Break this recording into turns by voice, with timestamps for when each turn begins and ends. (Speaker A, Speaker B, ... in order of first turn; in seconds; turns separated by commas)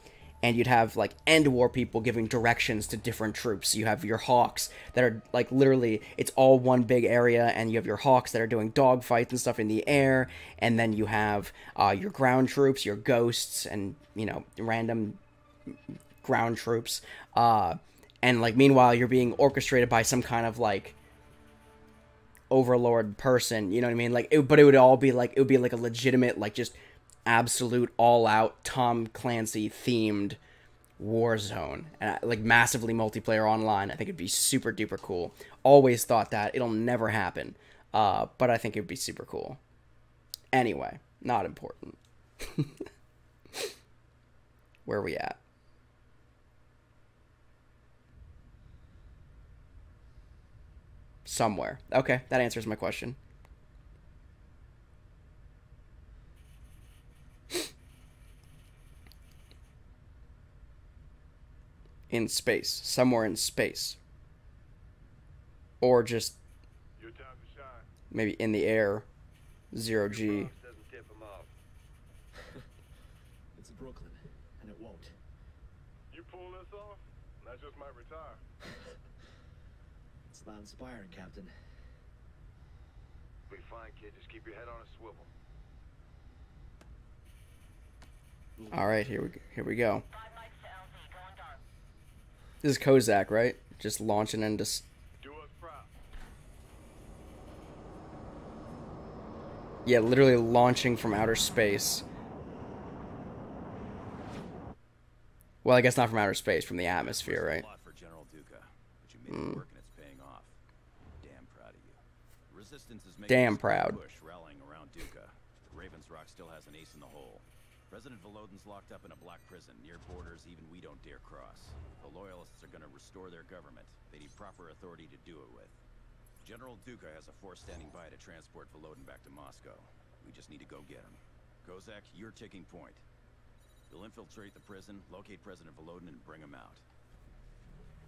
Speaker A: 0.4-20.9, Speaker A: 22.5-30.4, Speaker A: 31.0-39.6, Speaker A: 40.5-42.8, Speaker A: 44.9-45.4, Speaker A: 51.2-53.2, Speaker A: 62.1-64.0, Speaker A: 65.8-66.4, Speaker B: 67.0-67.9, Speaker A: 68.1-69.0, Speaker A: 69.7-70.5, Speaker C: 73.5-75.1, Speaker B: 76.1-78.4, Speaker C: 80.3-81.5, Speaker A: 88.7-90.0, Speaker A: 92.6-94.8, Speaker B: 95.2-95.9, Speaker A: 99.8-102.0, Speaker A: 105.6-107.7, Speaker D: 107.0-110.5, Speaker A: 109.3-109.6, Speaker D: 111.2-125.8, Speaker A: 113.3-114.0, Speaker D: 126.4-133.0, Speaker D: 133.9-136.8